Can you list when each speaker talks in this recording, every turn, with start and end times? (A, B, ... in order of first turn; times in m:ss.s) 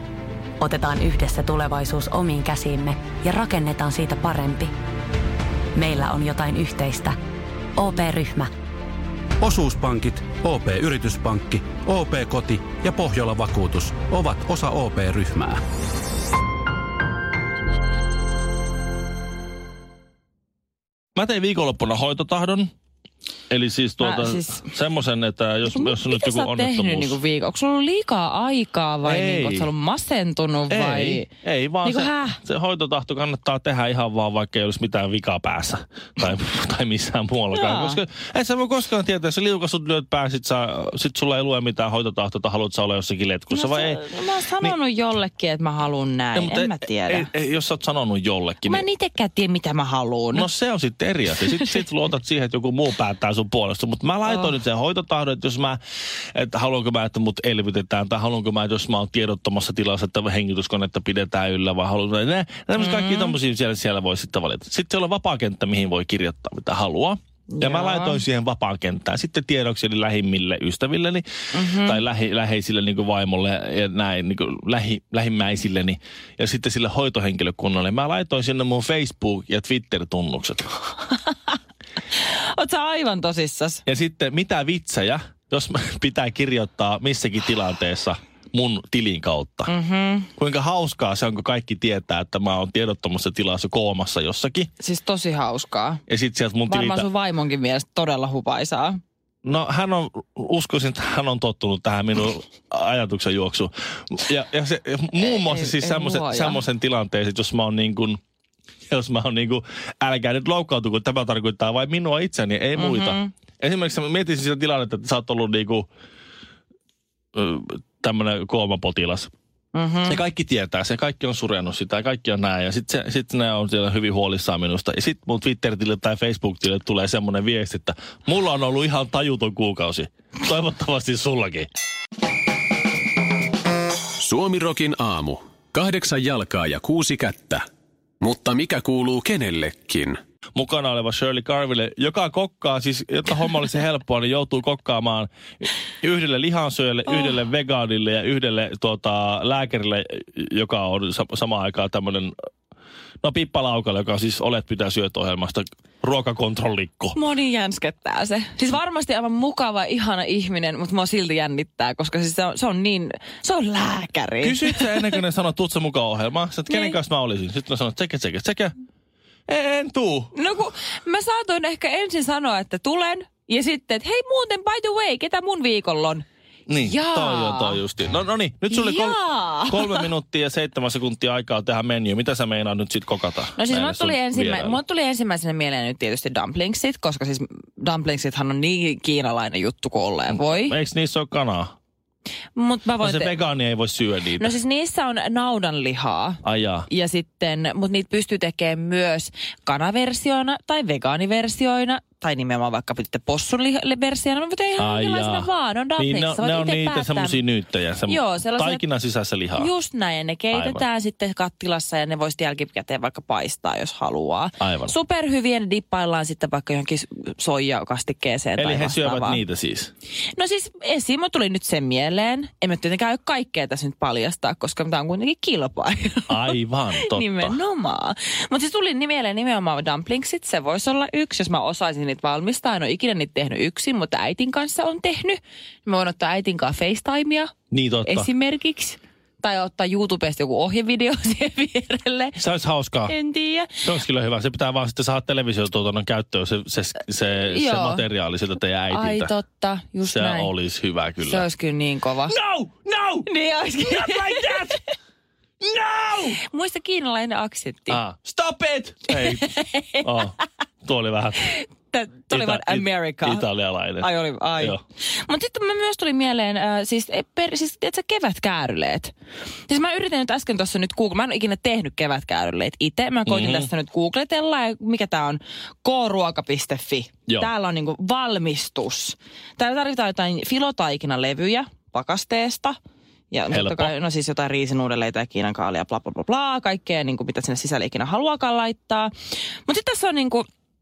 0:00.6-0:04.7 A
0:05.7-0:07.2 A
0:07.8-0:08.5 A
0:09.4-0:15.6 B
0:21.2-0:22.7 C
0:23.5-0:27.2 C
0:24.0-0:24.7 D
0:25.6-0:31.3 D
0:29.0-0:29.7 C
0:30.7-0:44.0 C
0:31.8-0:32.4 D
0:37.5-0:38.0 D
0:43.5-0:47.3 D
0:46.3-0:48.8 C
0:48.6-0:50.5 D
0:50.3-0:55.8 C
0:56.3-1:20.6 C
1:02.8-1:03.4 D
1:07.5-1:08.2 D
1:11.5-1:12.0 D
1:21.3-1:21.5 D
1:22.2-1:23.8 D
1:23.8-1:29.7 C
1:29.7-1:30.3 D
1:30.4-1:34.7 C
1:34.8-1:36.0 D
1:36.1-1:37.1 C
1:36.6-1:39.0 D
1:39.4-1:48.2 C
1:45.2-1:46.6 D
1:48.9-1:55.9 C
1:52.8-1:53.3 D
1:57.3-1:59.3 C
1:59.7-2:00.2 D
2:00.0-2:11.7 C
2:14.2-2:17.6 E
2:18.2-2:20.2 E
2:20.5-2:32.3 C
2:33.2-2:37.2 C
2:37.1-2:45.1 D
2:44.4-2:48.7 C
2:46.7-2:47.0 D
2:49.5-2:50.3 C
2:50.3-2:56.2 D
2:56.7-3:04.8 C
2:56.8-2:57.8 D
2:58.7-3:00.1 D
3:03.6-3:10.8 D
3:10.3-3:11.7 C
3:12.6-3:13.4 D
3:13.0-3:14.5 C
3:14.4-3:27.4 D
3:16.4-3:16.9 C
3:24.8-3:29.7 C
3:28.0-3:28.8 D
3:29.6-3:39.4 D
3:30.5-3:30.8 C
3:34.6-3:34.9 C
3:38.6-3:39.9 C
3:40.3-3:57.5 D
3:46.3-3:47.6 C
3:57.7-3:58.3 C
3:58.0-4:02.4 D
4:02.4-4:03.1 C
4:03.1-4:03.8 D
4:03.8-4:09.3 C
4:07.4-4:08.0 D
4:08.9-4:10.5 D
4:10.0-4:11.5 C
4:11.2-4:12.3 D
4:12.3-4:13.3 C
4:13.3-4:14.8 D
4:13.8-4:14.8 C
4:15.6-4:16.4 C
4:16.4-4:18.0 D
4:17.9-4:19.5 C
4:19.1-4:20.3 D
4:20.0-4:21.5 C
4:21.4-4:23.4 D
4:22.3-4:24.8 C
4:24.0-4:29.1 D
4:29.7-4:42.8 D
4:33.3-4:33.7 C
4:43.3-4:49.1 D
4:43.5-4:43.9 C
4:49.6-4:50.4 D